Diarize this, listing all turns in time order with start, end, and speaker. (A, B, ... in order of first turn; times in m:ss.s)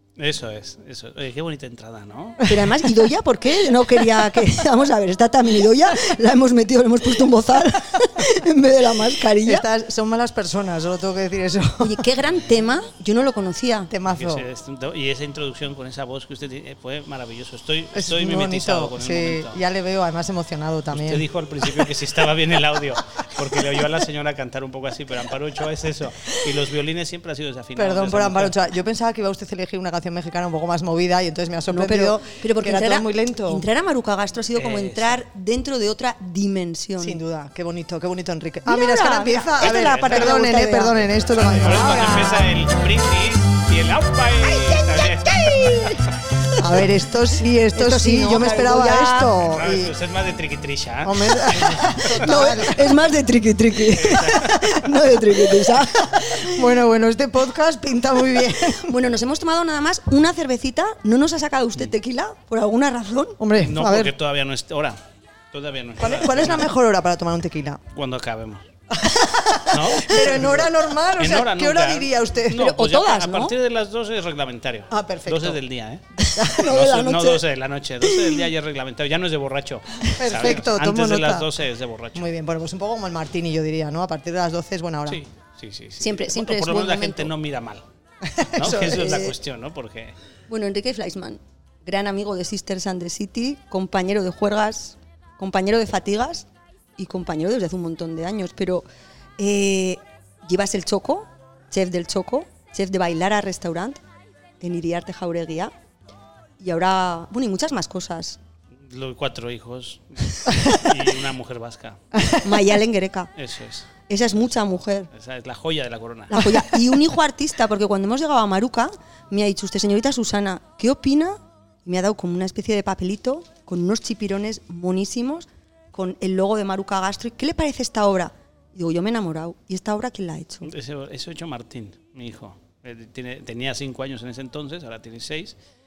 0:00.2-0:02.5 A
0:02.4-0:09.6 B
0:09.4-0:12.0 C
0:11.8-0:13.9 B
0:13.9-0:14.4 C
0:14.1-0:19.6 A
0:17.9-0:21.9 C
0:20.9-0:28.6 A
0:27.8-0:33.6 C
0:31.7-0:37.2 B
0:34.5-0:35.2 A
0:37.0-0:42.4 C
0:38.6-0:41.1 B
0:39.7-0:40.3 A
0:41.3-0:46.0 A
0:41.6-0:42.4 B
0:45.3-0:46.0 B
0:46.6-0:49.9 C
0:47.7-0:49.3 B
0:49.4-0:52.5 A
0:51.0-0:53.0 C
0:51.8-0:56.6 B
0:53.8-0:54.9 A
0:56.2-0:58.9 C
0:58.8-1:03.4 B
1:03.4-1:04.1 C
1:03.6-1:05.0 A
1:05.5-1:06.7 A
1:06.0-1:07.8 C
1:07.9-1:08.7 A
1:09.0-1:12.7 C
1:09.7-1:22.3 A
1:12.5-1:13.5 B
1:14.9-1:15.6 C
1:16.2-1:17.4 B
1:20.2-1:21.6 C
1:22.1-1:25.2 C
1:25.0-1:27.8 A
1:26.0-1:27.3 B
1:28.2-1:29.2 C
1:28.5-1:30.1 A
1:28.8-1:29.3 B
1:30.5-1:38.8 B
1:39.4-1:44.0 B
1:44.6-1:45.7 B
1:46.6-1:48.4 B
1:48.8-1:52.2 A
1:52.1-1:52.4 C
1:52.4-1:53.3 B
1:53.4-1:53.9 A
1:54.1-1:55.1 B
1:55.1-1:56.5 A
1:56.3-2:10.7 B
2:10.6-2:15.6 A